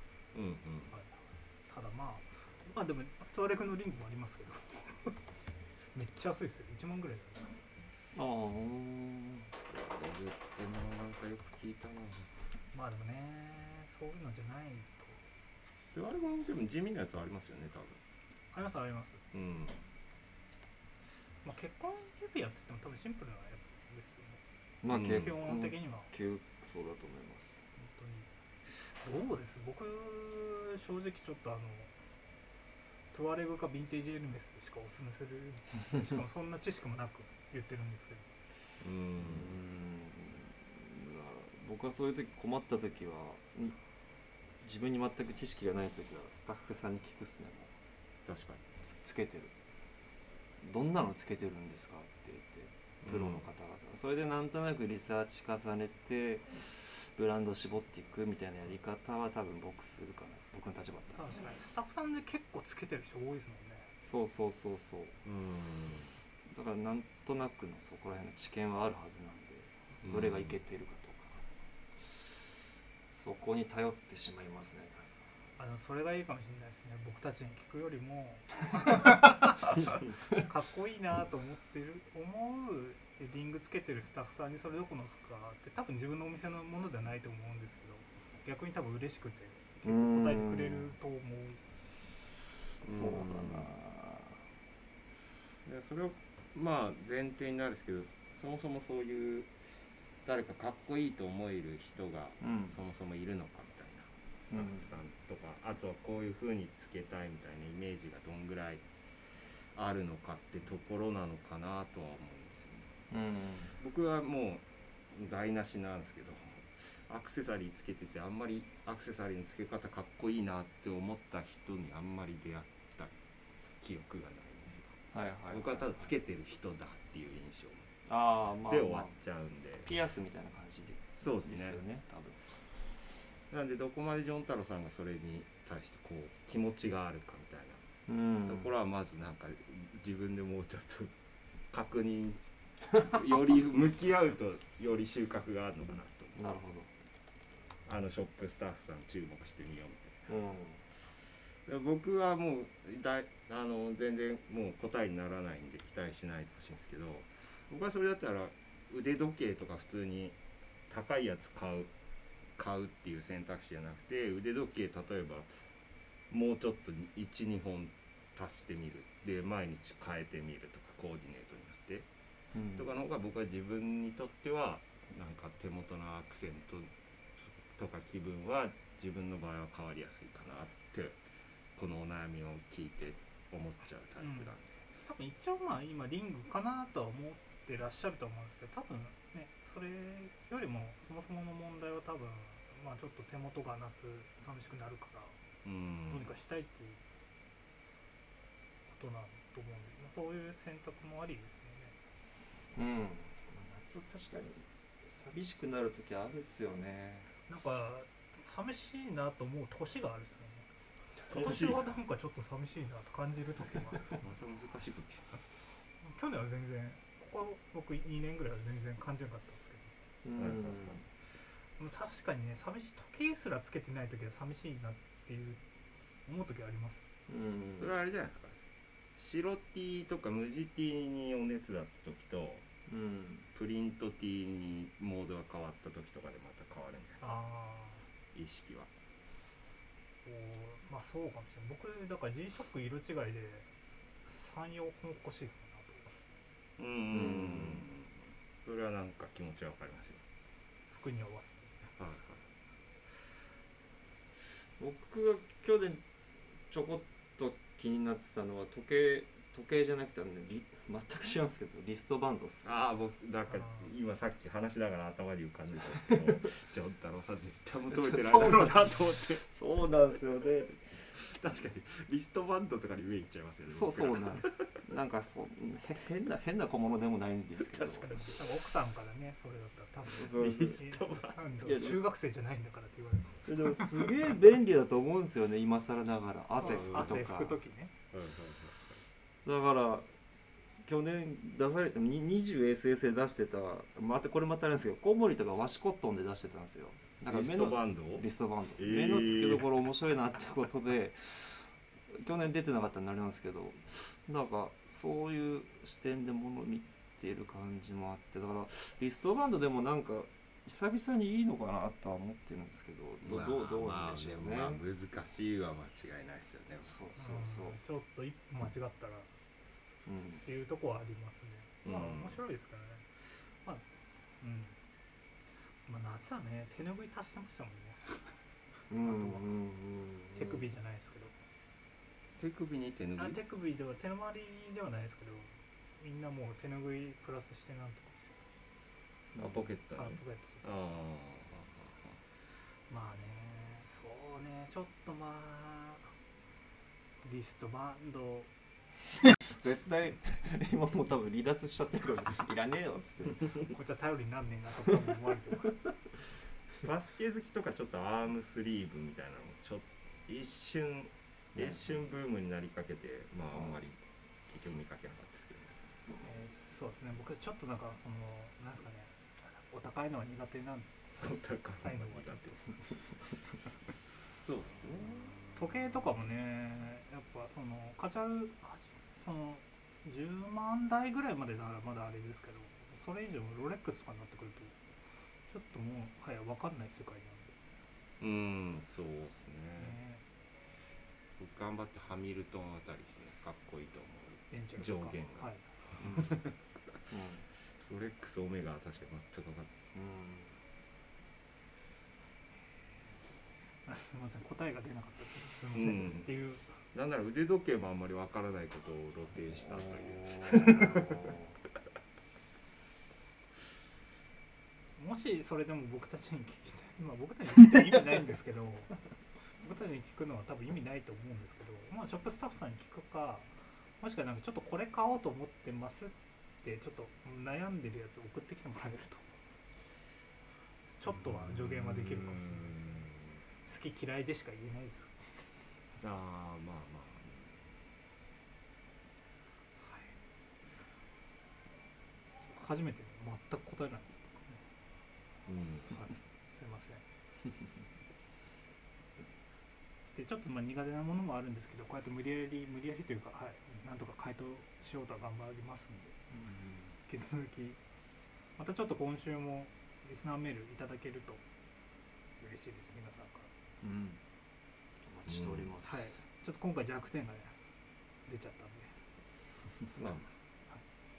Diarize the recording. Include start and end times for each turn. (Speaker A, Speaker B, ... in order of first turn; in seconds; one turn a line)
Speaker A: 0.3-0.9
Speaker B: 0.9-5.2
Speaker B: 5.9-7.7
Speaker C: 8.1-9.6
Speaker A: 9.7-12.3
Speaker B: 12.7-15.2
Speaker A: 15.9-18.0
Speaker B: 18.5-19.2
Speaker A: 19.3-19.8
Speaker B: 21.4-26.1
Speaker C: 24.8-27.6
Speaker A: 24.9-25.4
Speaker B: 27.8-32.0
Speaker B: 33.1-38.4
Speaker A: 38.8-39.6
Speaker C: 39.2-43.8
Speaker C: 44.6-47.7
Speaker A: 48.2-48.7
Speaker C: 48.8-49.5
Speaker C: 50.6-61.4
Speaker A: 53.0-53.5
Speaker B: 61.2-63.9
Speaker C: 64.0-65.2
Speaker A: 65.2-66.2
Speaker C: 66.5-71.4
Speaker A: 70.0-70.6
Speaker C: 72.0-72.3
Speaker C: 73.1-75.1
Speaker B: 75.6-91.6
Speaker C: 89.8-91.0
Speaker C: 92.8-94.4
Speaker A: 92.8-93.7
Speaker A: 95.7-99.7
Speaker A: 100.2-108.8
Speaker C: 102.4-102.8
Speaker C: 104.5-104.9
Speaker A: 109.7-112.9
Speaker C: 113.1-113.8
Speaker A: 113.7-123.2
Speaker A: 123.8-125.0
Speaker C: 125.1-126.1
Speaker A: 125.5-127.9
Speaker C: 128.1-129.2
Speaker A: 128.6-129.9
Speaker C: 129.8-132.4
Speaker A: 131.2-131.8
Speaker A: 133.5-137.8
Speaker C: 138.1-138.7
Speaker A: 138.5-141.1
Speaker A: 141.7-146.5
Speaker C: 146.3-146.9
Speaker A: 147.8-150.3
Speaker C: 150.3-150.8
Speaker A: 151.7-160.3
Speaker A: 160.9-161.9
Speaker A: 162.6-165.6
Speaker A: 166.3-172.1
Speaker C: 172.5-172.9
Speaker A: 172.8-176.9
Speaker A: 177.7-181.2
Speaker A: 181.8-184.8
Speaker B: 184.2-195.4
Speaker A: 195.6-196.3
Speaker B: 196.1-197.0
Speaker B: 198.9-202.0
Speaker C: 202.7-207.3
Speaker B: 207.5-210.7
Speaker A: 211.3-211.9
Speaker B: 211.3-214.2
Speaker A: 214.2-215.4
Speaker B: 216.0-219.9
Speaker C: 220.2-221.1
Speaker A: 220.3-221.0
Speaker B: 221.8-225.6
Speaker B: 226.3-227.0
Speaker C: 227.3-227.9
Speaker A: 227.8-228.6
Speaker A: 229.2-232.7
Speaker C: 232.9-233.5
Speaker A: 233.5-237.4
Speaker B: 237.2-238.0
Speaker A: 238.3-238.9
Speaker B: 240.2-243.7
Speaker B: 244.2-246.2
Speaker A: 246.8-250.2
Speaker C: 247.1-247.9
Speaker B: 250.9-251.9
Speaker A: 252.0-252.5
Speaker C: 254.8-256.0
Speaker C: 256.7-262.7
Speaker A: 262.6-269.5
Speaker C: 267.9-271.1
Speaker A: 271.1-274.8
Speaker C: 273.7-278.2
Speaker A: 277.6-278.4
Speaker B: 278.1-284.0
Speaker C: 280.1-280.9
Speaker A: 280.3-281.4
Speaker C: 281.6-282.1
Speaker C: 283.4-287.6
Speaker B: 286.6-287.9
Speaker A: 286.6-287.2
Speaker A: 288.1-289.0
Speaker C: 289.4-290.1
Speaker C: 290.8-314.8
Speaker A: 297.2-299.7
Speaker A: 313.2-317.0
Speaker C: 316.8-317.8
Speaker B: 317.2-319.3
Speaker C: 320.1-320.4
Speaker B: 320.4-323.9
Speaker A: 321.8-322.4
Speaker B: 324.4-324.8
Speaker B: 325.6-328.4
Speaker C: 328.9-330.6
Speaker B: 329.0-329.4
Speaker B: 330.4-331.3
Speaker A: 332.4-333.4
Speaker B: 333.2-338.4
Speaker C: 339.4-339.6
Speaker A: 339.4-342.1
Speaker B: 339.9-340.6
Speaker B: 342.9-346.1
Speaker B: 347.2-348.5
Speaker C: 349.5-353.8
Speaker B: 353.6-355.8
Speaker A: 356.8-365.8
Speaker C: 361.5-361.9
Speaker B: 366.2-370.9
Speaker A: 371.2-372.8
Speaker B: 371.8-372.4
Speaker A: 374.4-375.4
Speaker B: 375.5-384.8
Speaker B: 385.5-387.6
Speaker A: 388.2-390.0
Speaker B: 389.8-390.2
Speaker A: 391.4-396.6
Speaker B: 394.5-395.7
Speaker C: 396.0-396.3
Speaker C: 397.1-397.5
Speaker A: 397.8-399.9
Speaker C: 399.9-400.6
Speaker B: 403.8-406.8
Speaker A: 405.7-406.3
Speaker A: 406.9-411.2
Speaker C: 409.8-411.4
Speaker B: 414.9-418.9
Speaker B: 419.5-429.4
Speaker B: 430.9-433.1
Speaker A: 431.1-433.3
Speaker B: 433.6-435.3
Speaker A: 436.0-437.6
Speaker B: 439.8-440.1
Speaker B: 442.4-444.6
Speaker A: 445.5-446.1
Speaker B: 445.9-447.0
Speaker B: 450.1-456.2
Speaker C: 456.3-457.0
Speaker B: 457.1-457.8
Speaker B: 458.6-461.4
Speaker B: 462.4-463.5
Speaker C: 463.8-464.2
Speaker C: 465.1-466.2
Speaker A: 465.3-465.7
Speaker B: 465.8-467.6
Speaker B: 468.2-469.0
Speaker A: 469.9-470.3